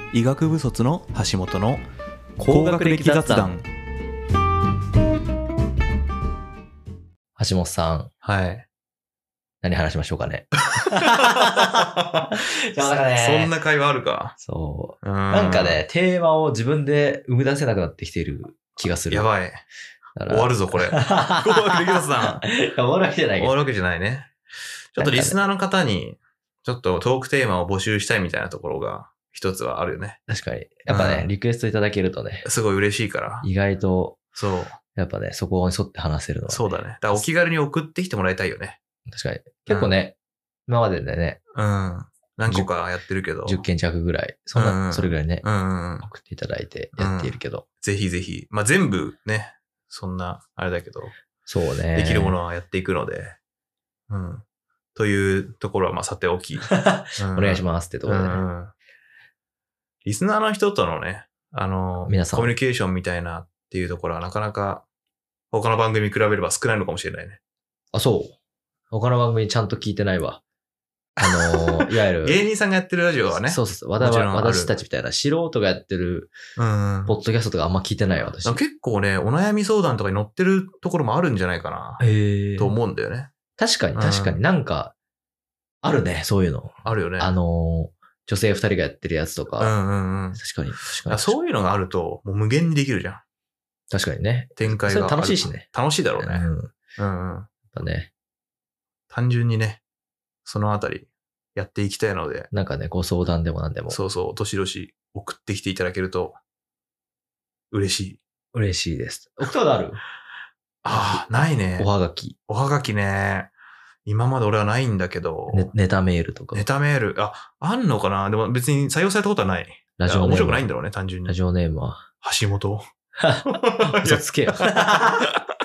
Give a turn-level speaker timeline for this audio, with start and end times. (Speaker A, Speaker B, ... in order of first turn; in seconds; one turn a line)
Speaker A: 0.1-1.9
Speaker B: 2.4-3.6
Speaker A: 2.5-3.6
Speaker B: 7.4-8.1
Speaker A: 8.2-8.7
Speaker B: 9.6-13.6
Speaker A: 10.7-14.4
Speaker B: 14.4-19.3
Speaker A: 15.0-15.8
Speaker A: 18.8-19.6
Speaker B: 20.2-23.6
Speaker A: 20.3-22.4
Speaker A: 23.4-24.3
Speaker A: 24.9-30.2
Speaker B: 25.0-25.4
Speaker B: 30.3-32.5
Speaker A: 30.9-31.3
Speaker A: 32.5-33.5
Speaker B: 33.4-34.2
Speaker A: 34.4-34.8
Speaker B: 35.0-37.3
Speaker A: 36.5-38.8
Speaker B: 39.1-41.4
Speaker A: 39.7-40.0
Speaker A: 41.5-43.6
Speaker B: 43.5-45.5
Speaker A: 44.5-46.1
Speaker B: 46.0-47.6
Speaker A: 47.0-51.1
Speaker B: 51.5-52.4
Speaker A: 51.9-53.4
Speaker A: 54.1-54.4
Speaker A: 55.0-58.7
Speaker B: 56.7-58.5
Speaker A: 60.0-64.8
Speaker B: 62.0-62.5
Speaker A: 65.5-67.4
Speaker B: 67.9-68.3
Speaker B: 68.9-70.4
Speaker A: 71.2-74.8
Speaker B: 71.2-72.4
Speaker B: 73.3-76.3
Speaker A: 76.6-77.2
Speaker B: 77.1-78.6
Speaker A: 78.4-82.0
Speaker B: 82.0-82.8
Speaker A: 82.6-83.3
Speaker B: 83.6-84.9
Speaker A: 84.0-84.4
Speaker B: 85.8-89.8
Speaker A: 86.8-87.3
Speaker A: 89.6-93.2
Speaker B: 90.3-91.4
Speaker B: 93.9-96.7
Speaker A: 94.6-97.5
Speaker B: 97.7-98.1
Speaker A: 99.1-99.8
Speaker A: 100.5-102.5
Speaker B: 102.5-104.0
Speaker A: 103.9-106.4
Speaker A: 107.7-108.2
Speaker B: 108.5-110.0
Speaker A: 110.8-111.9
Speaker B: 110.9-112.4
Speaker A: 112.5-113.5
Speaker A: 114.1-115.7
Speaker B: 115.5-116.7
Speaker A: 116.5-121.4
Speaker B: 120.0-120.7
Speaker B: 121.2-122.1
Speaker A: 122.2-122.9
Speaker B: 123.2-125.3
Speaker A: 123.5-124.7